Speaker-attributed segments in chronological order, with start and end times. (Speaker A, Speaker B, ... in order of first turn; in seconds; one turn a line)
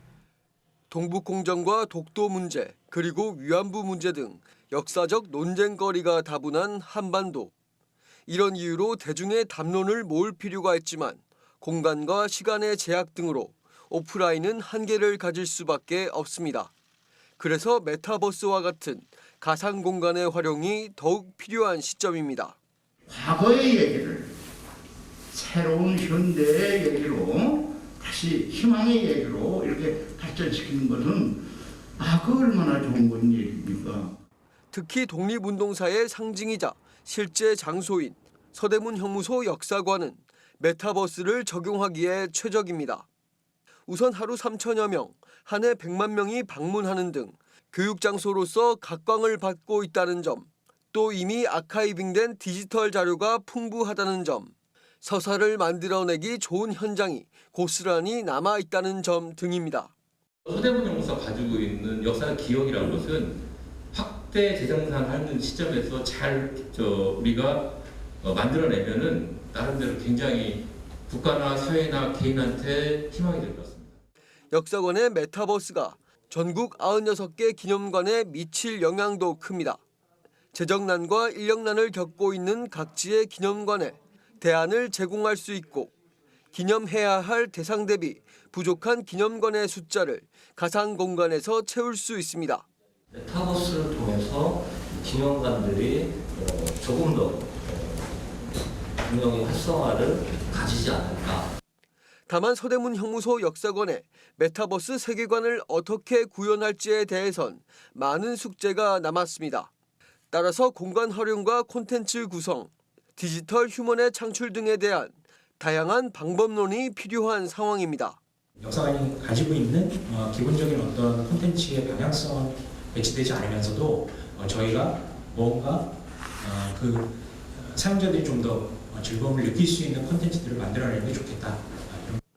Speaker A: 0.9-7.5
Speaker A: 8.3-16.7
Speaker A: 17.4-22.6
Speaker B: 23.1-24.3
Speaker B: 25.3-31.4
Speaker B: 32.0-34.1
Speaker A: 34.7-43.0
Speaker A: 43.9-59.9
Speaker C: 60.5-63.4
Speaker C: 63.9-73.9
Speaker A: 74.5-79.8
Speaker A: 80.5-85.9
Speaker A: 86.5-92.6
Speaker D: 93.1-98.0
Speaker D: 99.0-101.5
Speaker A: 102.3-109.7
Speaker A: 110.3-118.2
Speaker E: 118.6-125.9
Speaker E: 126.4-132.2